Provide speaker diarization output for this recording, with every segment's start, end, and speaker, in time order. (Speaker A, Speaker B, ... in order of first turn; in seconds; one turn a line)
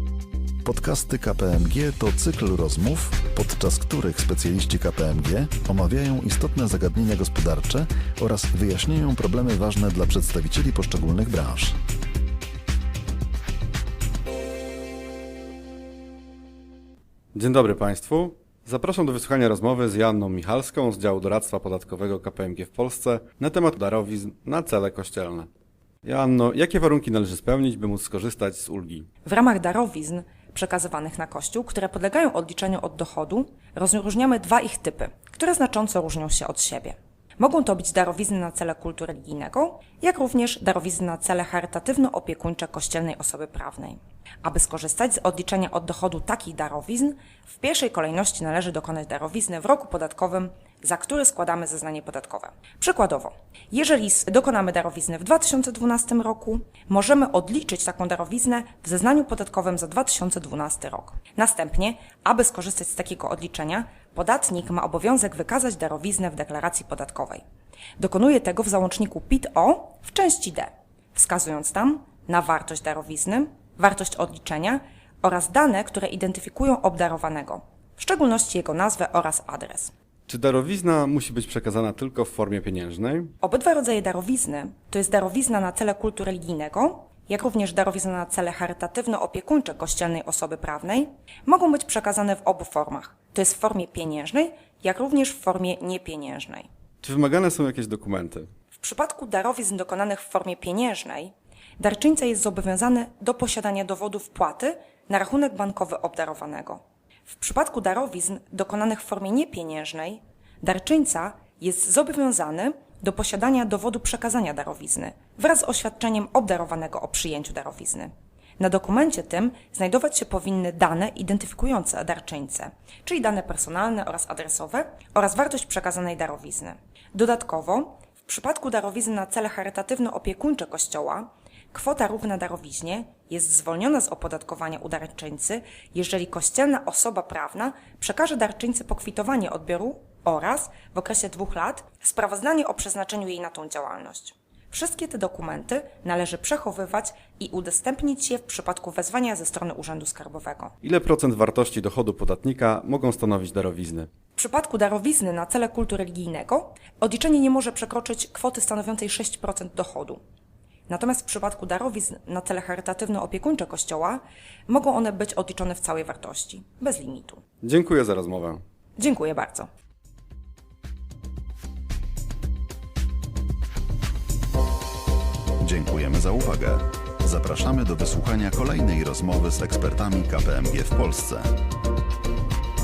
Speaker A: 0.6-11.8
Speaker B: 17.3-25.5
Speaker B: 26.0-29.1
Speaker C: 29.2-67.4
Speaker C: 68.0-79.9
Speaker B: 80.3-83.3
Speaker C: 83.4-96.7
Speaker B: 97.0-98.5
Speaker C: 98.7-150.7
Speaker B: 150.8-154.1
Speaker C: 154.3-160.2
Speaker C: 160.9-167.4
Speaker B: 167.6-168.6
Speaker C: 169.0-169.7
Speaker A: 175.6-181.5